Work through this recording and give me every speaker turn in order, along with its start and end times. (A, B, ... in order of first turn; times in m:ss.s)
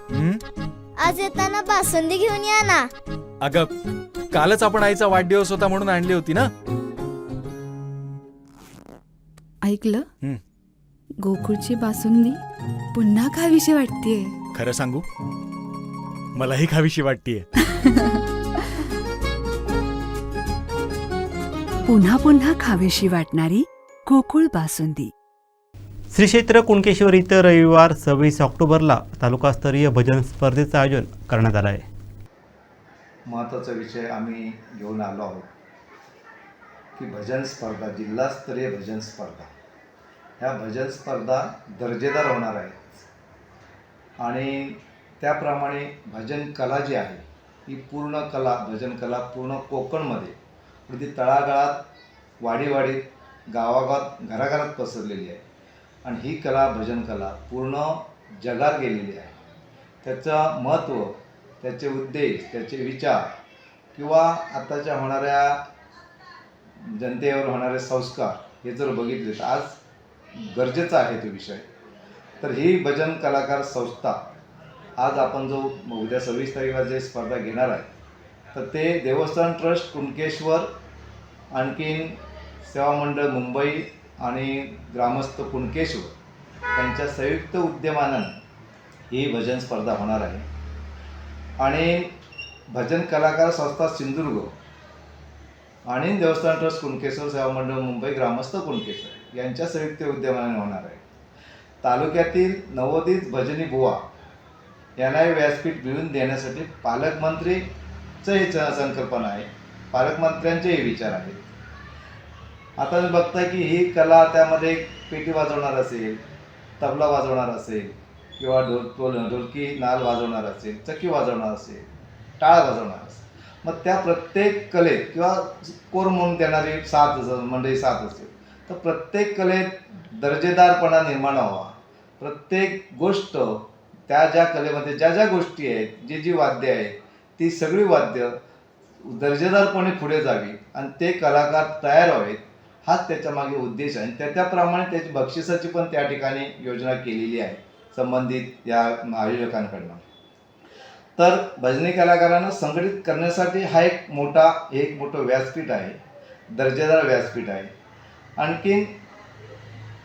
0:00.1-0:00.4 A
0:01.0-0:02.9 B
0:03.4-0:03.7 A
0:04.3-0:06.5 A
0:09.6-0:10.1 C
0:11.2-0:12.4 C
0:13.0-0:13.3 D
0:13.0-0:14.3 C
0:14.5-0:15.0 A
0:16.4-0:17.5 A
0:21.9-0:25.1 D
0:26.1-0:31.9 E
0:33.3-0:35.5 F
0:37.0-0:39.5 F
0:40.4-0:42.9 F
0:44.2-0:50.4 F
0:50.9-0:51.8 F
0:52.4-0:55.4 F
0:56.0-0:59.4 F
1:00.0-1:03.3 F
1:04.0-1:05.6 F
1:06.8-1:09.8 F
1:10.4-1:11.6 F
1:12.4-1:14.3 F
1:15.0-1:17.9 F
1:18.5-1:20.7 F
1:21.5-1:26.1 F
1:26.8-1:28.4 F
1:29.1-1:30.5 F
1:31.6-1:32.1 F
1:32.7-1:34.5 F
1:35.9-1:41.0 F
1:41.8-1:44.0 F
1:45.0-1:47.7 F
1:48.2-1:51.5 F
1:52.8-1:56.2 F
1:56.8-2:01.9 F
2:02.4-2:18.4 F
2:19.0-2:30.0 F
2:31.2-2:36.0 F
2:36.5-2:37.7 F
2:38.4-2:39.0 F